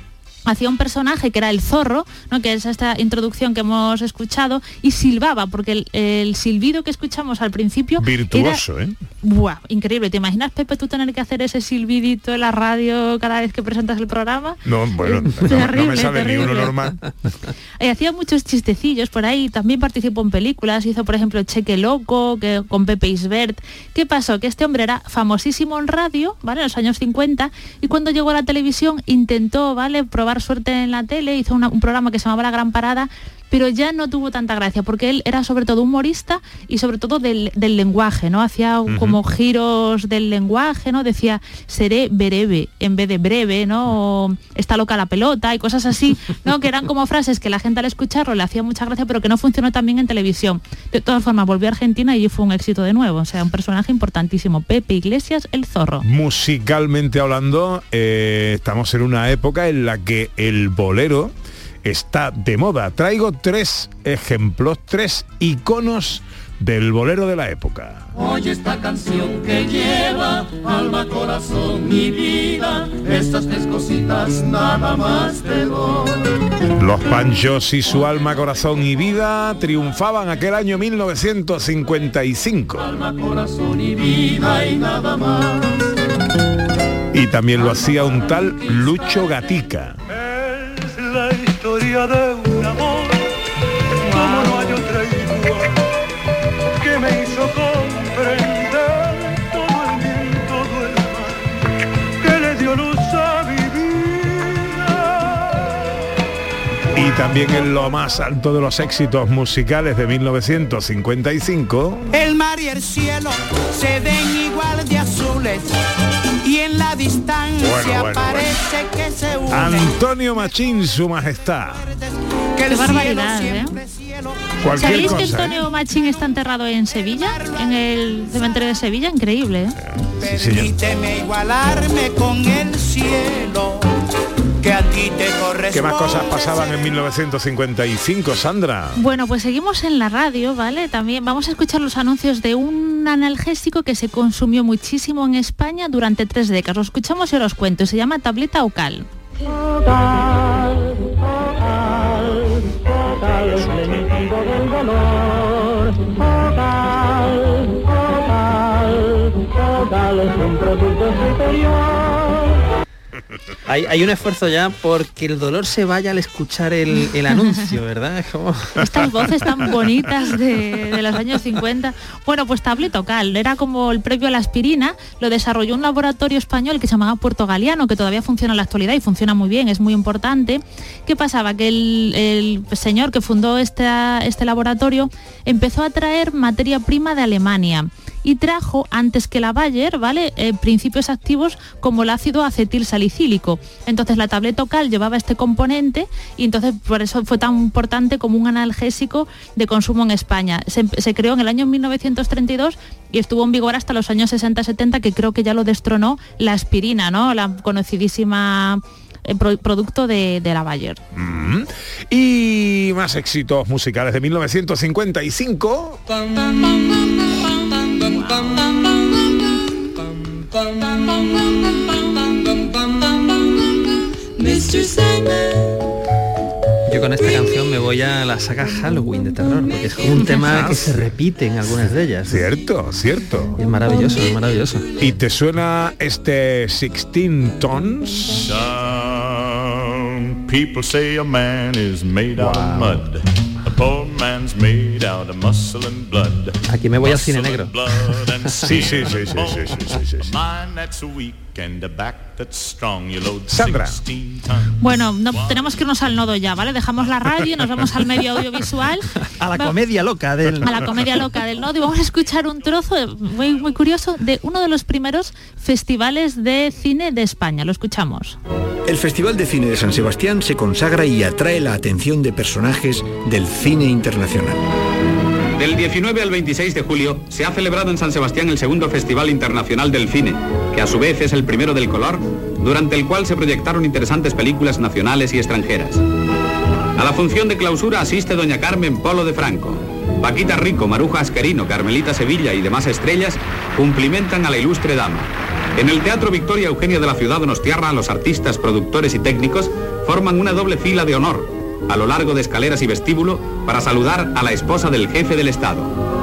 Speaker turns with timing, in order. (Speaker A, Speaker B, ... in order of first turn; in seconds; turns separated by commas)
Speaker A: 0.5-8.6, Speaker B: 8.0-9.0, Speaker A: 9.2-16.9, Speaker B: 14.7-17.0, Speaker A: 17.8-56.0, Speaker B: 38.9-39.2, Speaker B: 56.0-68.1, Speaker B: 76.8-82.9, Speaker B: 87.1-90.0, Speaker C: 90.2-93.2, Speaker C: 94.0-95.8, Speaker C: 96.8-101.5, Speaker C: 102.2-105.7, Speaker B: 106.9-112.1, Speaker D: 112.1-115.7, Speaker D: 116.4-120.5, Speaker B: 117.6-118.6, Speaker B: 119.5-121.8, Speaker D: 121.8-126.3, Speaker A: 122.7-123.8, Speaker B: 124.6-125.7, Speaker A: 124.7-129.8, Speaker D: 127.0-127.7, Speaker B: 129.8-130.7, Speaker D: 130.2-133.9, Speaker D: 134.6-137.0, Speaker B: 135.7-139.0, Speaker A: 139.0-149.1, Speaker B: 153.0-154.4, Speaker E: 163.7-168.8, Speaker A: 168.8-211.0, Speaker B: 211.1-216.0, Speaker E: 226.9-232.4, Speaker B: 230.3-231.1, Speaker B: 232.3-233.6, Speaker E: 233.6-234.8, Speaker B: 235.0-238.5, Speaker F: 238.5-254.7, Speaker B: 242.4-243.0, Speaker E: 246.7-247.8, Speaker B: 248.7-250.3, Speaker B: 253.5-254.0, Speaker A: 254.8-259.7, Speaker F: 255.3-255.9, Speaker E: 259.2-261.0, Speaker A: 260.6-268.4, Speaker G: 268.9-274.6, Speaker H: 275.6-286.0, Speaker H: 287.0-305.9